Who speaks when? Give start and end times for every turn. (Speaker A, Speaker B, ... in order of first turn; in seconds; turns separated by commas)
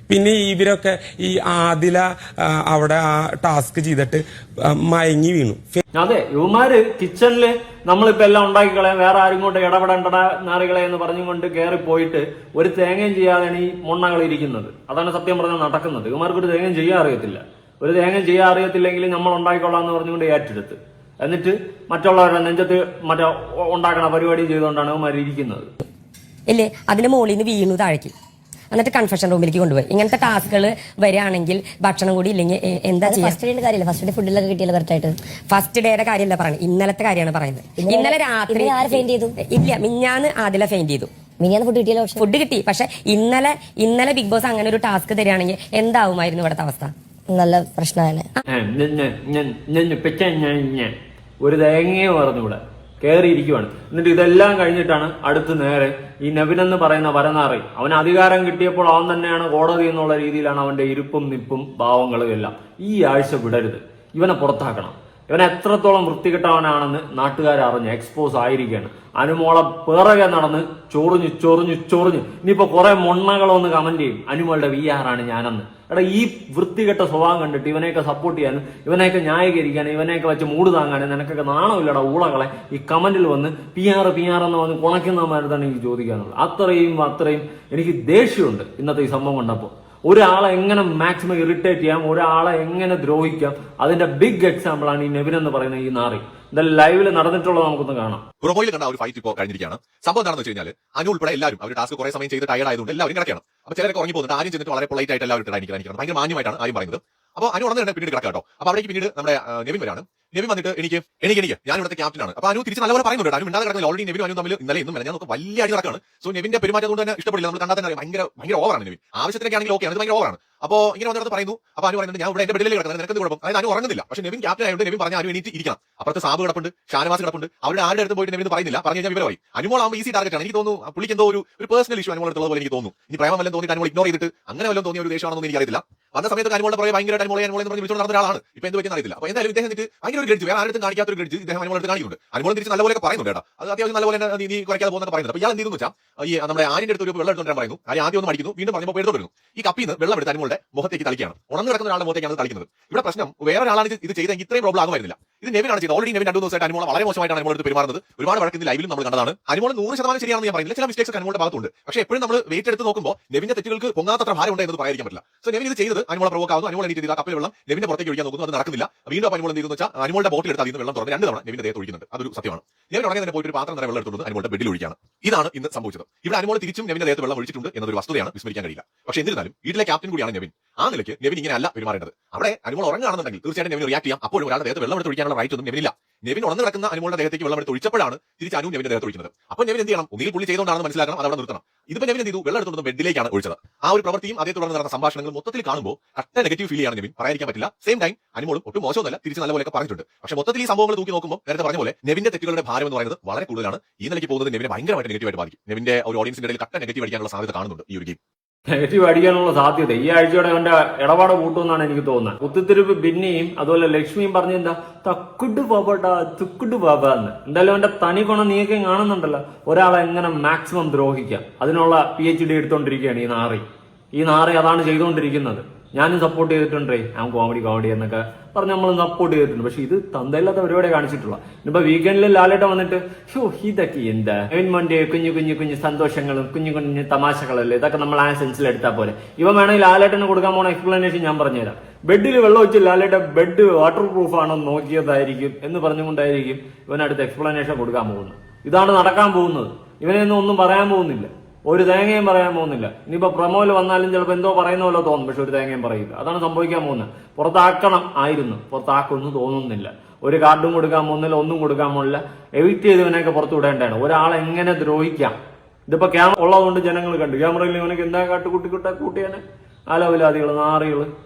Speaker A: 0.1-5.8, Speaker B: 6.0-25.7, Speaker C: 26.5-28.1, Speaker C: 28.7-33.4, Speaker D: 33.0-35.2, Speaker C: 35.5-41.1, Speaker D: 37.8-39.4, Speaker D: 41.4-42.2, Speaker C: 42.2-46.9, Speaker D: 47.3-48.3, Speaker B: 48.5-98.2, Speaker E: 98.4-208.2, Speaker B: 208.7-223.6, Speaker B: 224.2-265.4, Speaker B: 265.9-271.1